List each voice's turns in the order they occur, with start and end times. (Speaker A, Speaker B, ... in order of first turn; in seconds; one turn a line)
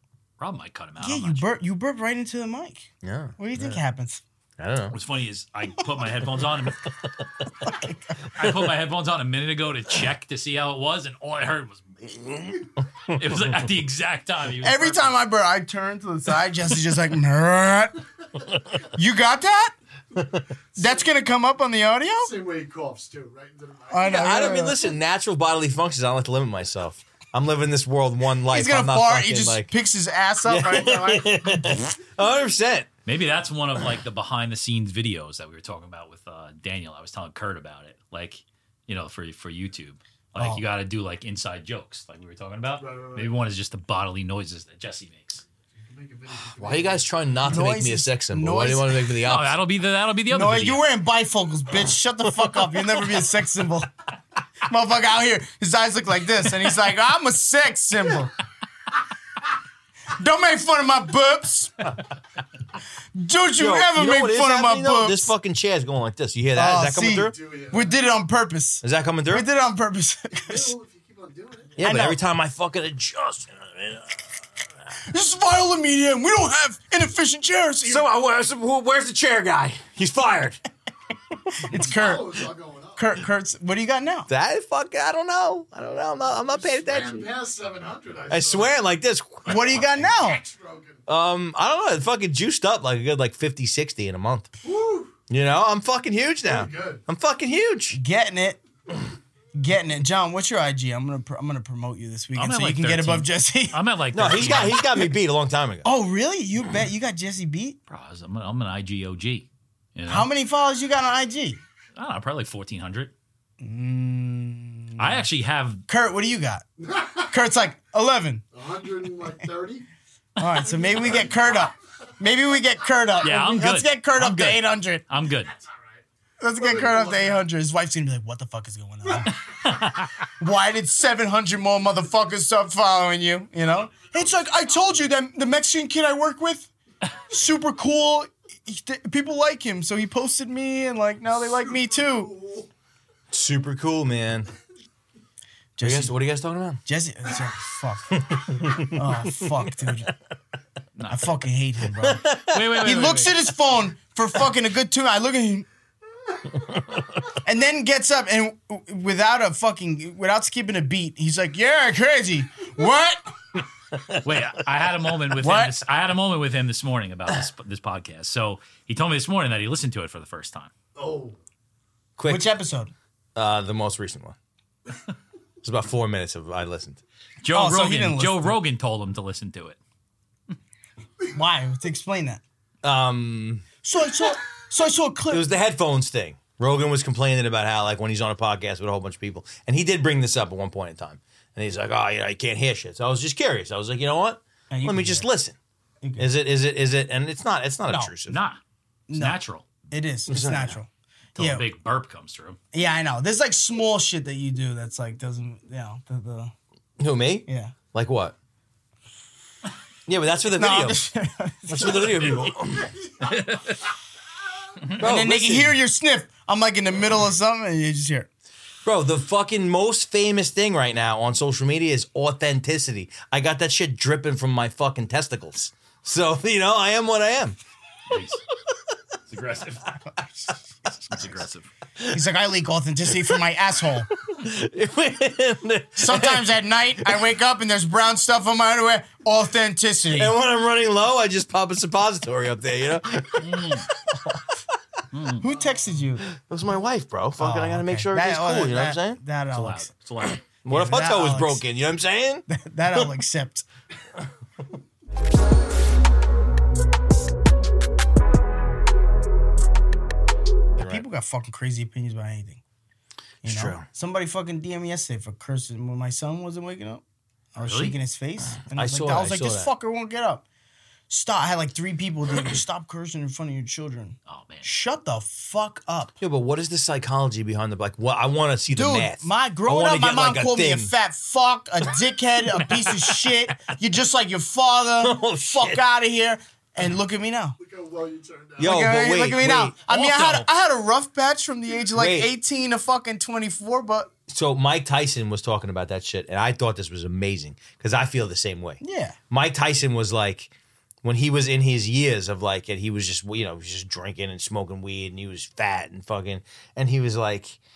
Speaker A: 0.4-1.5
Speaker B: 1.0-4.2
Speaker C: 3.0-3.8
Speaker C: 4.6-5.0
Speaker A: 4.9-6.9
Speaker B: 7.7-8.0
Speaker A: 8.3-15.1
Speaker B: 14.6-18.0
Speaker B: 18.9-19.8
Speaker D: 20.8-21.1
Speaker B: 20.8-22.3
Speaker D: 22.2-24.3
Speaker B: 23.9-24.8
Speaker C: 24.0-29.7
Speaker B: 28.5-31.9
Speaker C: 30.4-32.9
Speaker A: 33.1-45.4
Speaker B: 40.4-40.6
Speaker D: 42.8-43.3
Speaker D: 45.8-47.1
Speaker C: 46.5-49.6
Speaker B: 47.4-49.2
Speaker A: 49.2-50.8
Speaker B: 50.3-53.9
Speaker B: 54.7-58.3
Speaker B: 60.1-61.9
Speaker B: 63.1-65.3
Speaker C: 63.6-67.3
Speaker B: 66.5-70.8
Speaker D: 67.1-67.9
Speaker C: 68.8-69.5
Speaker D: 70.3-71.8
Speaker C: 71.8-74.3
Speaker B: 71.8-72.2
Speaker B: 75.1-78.1
Speaker C: 77.8-80.6
Speaker B: 81.6-82.4
Speaker D: 81.7-83.0
Speaker B: 83.0-84.3
Speaker C: 84.3-87.3
Speaker D: 86.4-88.7
Speaker C: 88.3-90.0
Speaker B: 89.5-90.4
Speaker D: 90.0-91.0
Speaker C: 91.1-94.5
Speaker D: 94.6-95.1
Speaker C: 95.3-98.0
Speaker D: 96.5-97.0
Speaker B: 97.9-98.6
Speaker B: 99.5-105.0
Speaker A: 102.3-105.0
Speaker C: 104.1-105.9
Speaker B: 105.8-107.8
Speaker A: 107.9-110.3
Speaker B: 110.1-111.6
Speaker A: 112.0-113.1
Speaker B: 113.6-115.2
Speaker A: 115.0-115.8
Speaker B: 115.9-116.7
Speaker D: 116.8-117.3
Speaker B: 117.3-118.4
Speaker D: 118.5-119.8
Speaker B: 120.4-125.0
Speaker D: 120.9-121.6
Speaker A: 123.2-125.5
Speaker D: 125.6-126.0
Speaker B: 126.4-129.4
Speaker D: 126.6-127.4
Speaker A: 129.6-130.1
Speaker B: 130.4-136.7
Speaker B: 137.3-142.3
Speaker D: 141.3-142.7
Speaker C: 143.3-144.5
Speaker B: 145.8-146.1
Speaker C: 145.8-146.8
Speaker B: 146.9-148.2
Speaker C: 148.2-149.0
Speaker B: 148.8-150.1
Speaker A: 151.0-151.3
Speaker B: 151.1-155.7
Speaker C: 152.0-152.6
Speaker A: 152.5-153.3
Speaker B: 157.4-163.3
Speaker A: 164.2-170.7
Speaker B: 165.4-165.8
Speaker D: 170.9-171.4
Speaker C: 172.2-172.5
Speaker B: 172.3-172.9
Speaker C: 173.3-174.4
Speaker C: 175.6-177.0
Speaker A: 177.4-179.8
Speaker B: 177.5-178.6
Speaker B: 181.3-182.4
Speaker C: 182.8-183.7
Speaker B: 183.8-185.5
Speaker C: 185.3-195.6
Speaker B: 194.7-195.3
Speaker B: 196.0-196.3
Speaker C: 196.2-198.4
Speaker A: 198.3-198.6
Speaker B: 199.1-201.7
Speaker A: 199.1-199.7
Speaker C: 200.3-200.8
Speaker A: 201.4-202.6
Speaker B: 202.7-206.5
Speaker C: 207.0-208.4
Speaker B: 207.5-207.8
Speaker C: 210.1-211.0
Speaker B: 210.5-212.4
Speaker C: 211.7-212.9
Speaker D: 212.8-213.3
Speaker A: 213.2-213.7
Speaker C: 215.0-215.8
Speaker B: 215.0-218.3
Speaker C: 218.8-227.6
Speaker A: 228.1-228.4
Speaker A: 229.3-230.0
Speaker A: 230.9-231.7
Speaker B: 232.1-234.1
Speaker C: 234.3-236.5
Speaker B: 236.0-240.3
Speaker C: 240.1-244.4
Speaker A: 243.4-243.9
Speaker A: 245.1-245.5
Speaker B: 245.4-246.2
Speaker D: 245.4-245.8
Speaker C: 246.3-249.2
Speaker B: 247.4-249.9
Speaker A: 249.5-250.4
Speaker C: 250.2-253.1
Speaker B: 250.7-251.6
Speaker B: 252.5-253.7
Speaker C: 260.8-261.0
Speaker B: 260.8-262.6
Speaker B: 263.4-267.0
Speaker C: 263.4-263.9
Speaker B: 267.6-270.4
Speaker A: 267.6-267.9
Speaker C: 268.6-269.7
Speaker B: 271.1-276.2
Speaker A: 274.3-274.7
Speaker C: 276.2-280.9
Speaker B: 278.7-287.6
Speaker C: 285.0-285.8
Speaker D: 287.6-288.8
Speaker C: 288.6-290.4
Speaker B: 288.6-294.1
Speaker C: 291.9-292.3
Speaker C: 294.3-300.5
Speaker B: 298.8-299.2
Speaker C: 301.0-307.6